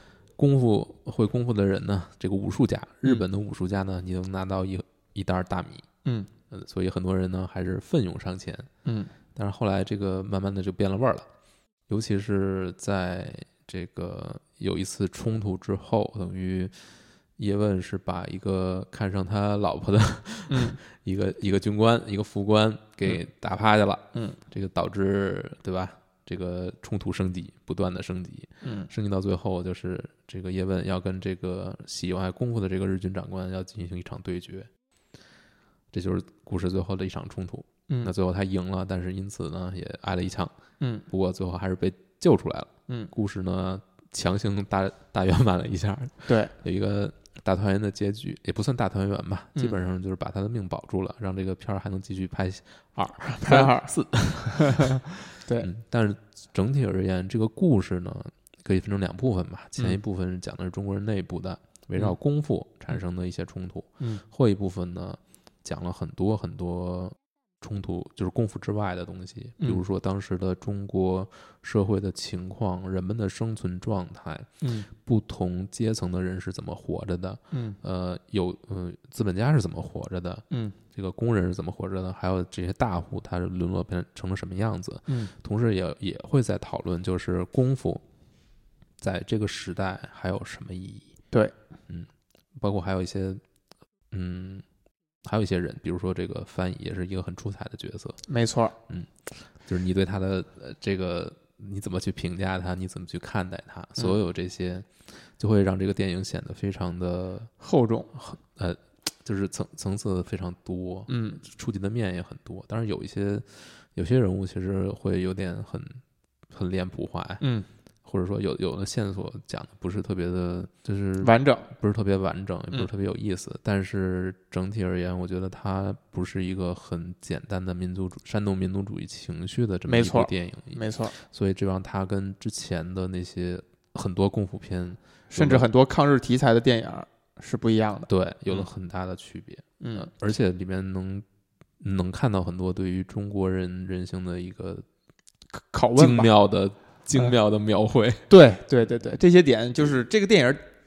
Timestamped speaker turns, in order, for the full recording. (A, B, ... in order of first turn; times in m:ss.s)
0:00.4-0:05.8 A
0:06.0-0:06.3 B
0:06.5-0:08.7 A
0:08.8-0:09.1 B
0:09.3-0:11.3 A
0:11.9-0:16.7 A
0:17.4-0:34.7 A
0:20.5-0:20.8 B
0:28.6-0:28.9 B
0:35.9-0:40.6 A
0:40.8-0:41.0 B
0:41.1-0:55.0 A
0:46.2-0:46.5 B
0:53.4-0:53.9 B
0:54.5-0:55.7 B
0:55.6-1:28.0 A
1:14.6-1:14.9 B
1:17.5-1:17.8 B
1:29.0-1:31.1 A
1:31.9-1:33.4 A
1:34.1-1:34.6 A
1:35.2-1:38.2 A
1:38.3-1:38.8 B
1:38.9-1:47.5 A
1:47.6-1:48.1 B
1:48.1-1:57.4 A
1:51.1-1:51.4 B
1:57.4-1:57.7 B
1:58.0-2:15.7 A
2:01.2-2:01.7 B
2:09.9-2:11.1 B
2:15.3-2:18.6 B
2:18.1-2:21.2 A
2:19.8-2:20.1 B
2:21.8-2:24.8 A
2:25.5-2:26.3 B
2:26.0-2:28.3 A
2:28.3-2:30.6 B